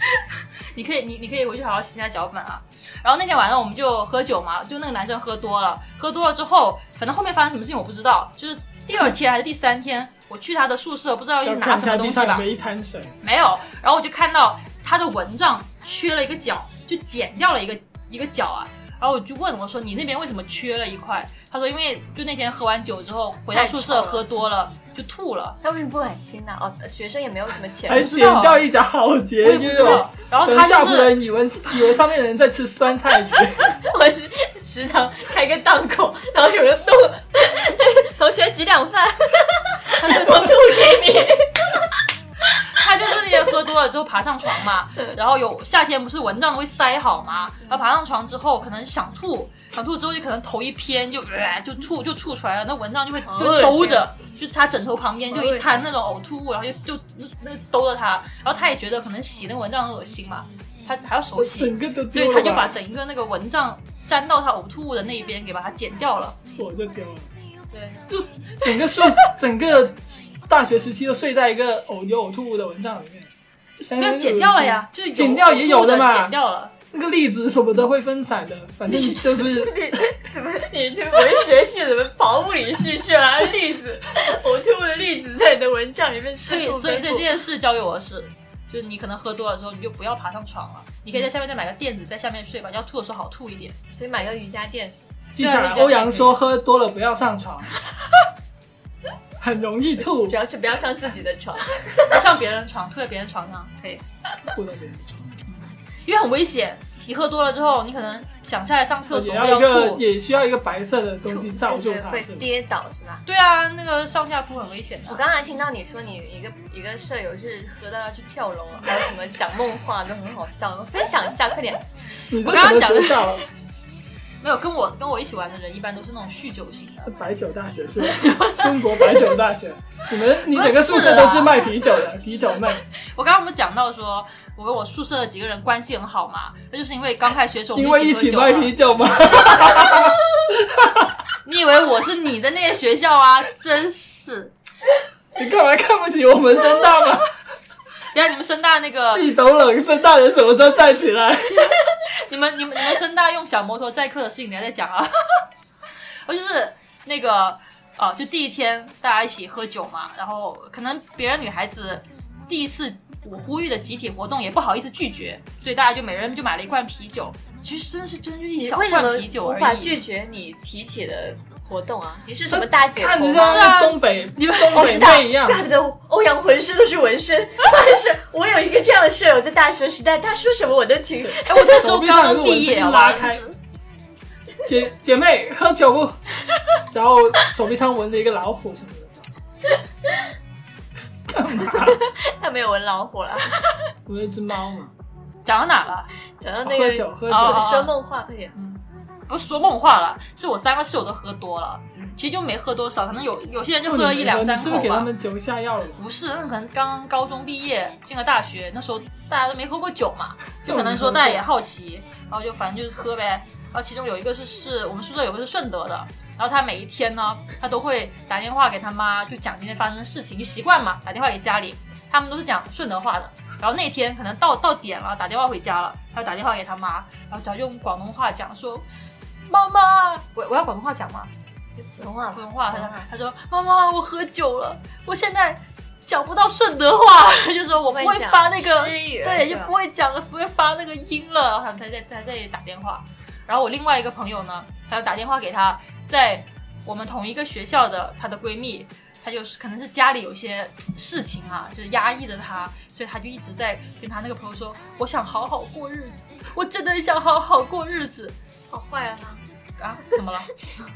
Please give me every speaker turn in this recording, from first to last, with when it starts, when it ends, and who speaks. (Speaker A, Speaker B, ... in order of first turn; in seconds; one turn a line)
Speaker A: 0.7-12.4
Speaker B: 11.4-13.1
Speaker A: 13.2-25.6
Speaker C: 23.5-24.3
Speaker C: 25.6-28.1
Speaker B: 27.9-33.7
Speaker A: 27.9-28.7
Speaker A: 29.4-31.2
Speaker C: 33.6-41.5
Speaker B: 40.0-40.5
Speaker A: 42.7-66.4
Speaker C: 53.2-54.1
Speaker C: 55.3-55.9
Speaker B: 61.3-62.7
Speaker B: 66.4-67.3
Speaker A: 67.7-69.3
Speaker B: 68.6-76.3
Speaker A: 74.0-76.7
Speaker B: 76.9-80.0
Speaker C: 78.9-87.3
Speaker A: 86.4-93.8
Speaker C: 94.0-95.0
Speaker B: 95.3-97.7
Speaker A: 95.4-96.4
Speaker B: 99.4-100.4
Speaker C: 100.1-102.2
Speaker A: 102.0-104.0
Speaker B: 104.5-105.4
Speaker A: 105.5-110.0
Speaker B: 109.1-112.5
Speaker C: 111.3-113.2
Speaker A: 113.2-115.2
Speaker C: 115.0-121.8
Speaker B: 122.3-123.5
Speaker A: 122.4-123.4
Speaker A: 124.4-127.1
Speaker B: 127.0-132.8
Speaker A: 128.2-128.5
Speaker A: 130.5-131.6
Speaker A: 133.0-138.8
Speaker B: 137.7-141.1
Speaker A: 139.4-139.8
Speaker A: 141.4-144.5
Speaker B: 145.3-147.3
Speaker A: 148.1-149.3
Speaker B: 149.1-151.7
Speaker A: 152.1-155.4
Speaker A: 156.2-170.0
Speaker C: 168.6-173.8
Speaker A: 172.4-172.7
Speaker B: 172.8-175.6
Speaker A: 173.3-175.1
Speaker C: 174.7-181.8
Speaker B: 181.2-183.4
Speaker A: 181.4-183.5
Speaker B: 184.6-186.2
Speaker B: 186.9-189.2
Speaker B: 191.3-192.0
Speaker C: 191.7-193.9
Speaker B: 194.1-194.9
Speaker A: 195.4-196.1
Speaker C: 196.4-198.5
Speaker B: 196.6-197.7
Speaker A: 197.3-197.9
Speaker A: 198.6-205.1
Speaker B: 203.8-206.0
Speaker A: 206.0-228.8
Speaker B: 210.6-211.4
Speaker A: 229.4-231.3
Speaker C: 231.8-233.1
Speaker A: 232.3-258.3
Speaker C: 237.8-239.7
Speaker C: 258.7-259.4
Speaker A: 259.8-260.5